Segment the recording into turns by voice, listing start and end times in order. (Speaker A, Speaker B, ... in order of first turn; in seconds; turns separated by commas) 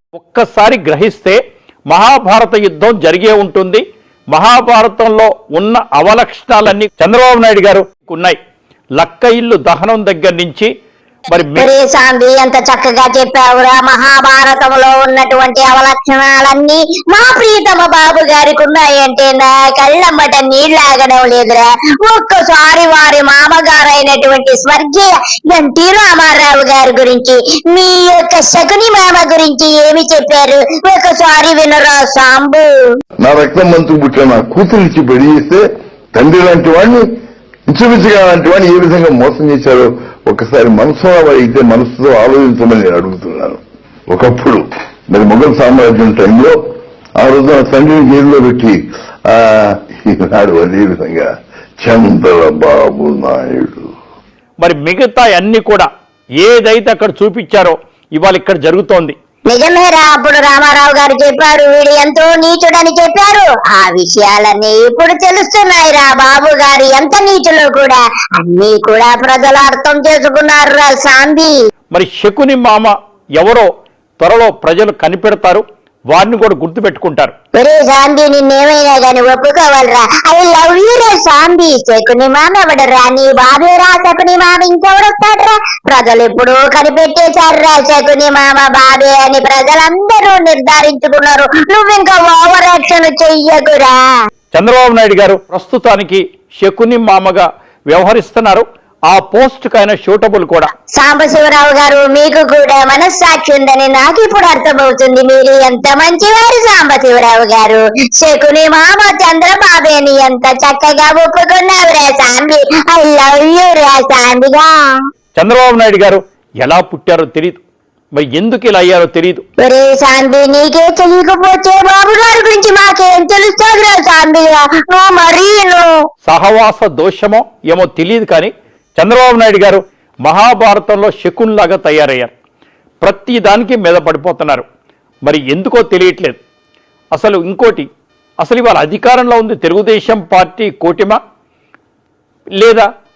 Speaker A: 0.1-8.3, Speaker A: 9.0-10.7, Speaker A: 11.3-11.7, Speaker B: 11.5-32.7, Speaker C: 33.2-37.1, Speaker C: 37.7-46.6, Speaker C: 47.2-53.9, Speaker A: 54.6-55.9, Speaker A: 56.4-59.1, Speaker B: 59.5-71.5, Speaker A: 71.9-73.7, Speaker A: 74.2-77.3, Speaker B: 77.5-94.0, Speaker A: 94.5-100.7, Speaker B: 100.9-114.7, Speaker A: 115.3-117.6, Speaker A: 118.1-119.4, Speaker B: 119.6-126.0, Speaker A: 126.2-132.3, Speaker A: 133.0-134.6, Speaker A: 135.2-136.4, Speaker A: 137.1-137.9, Speaker A: 138.4-141.2, Speaker A: 142.6-142.9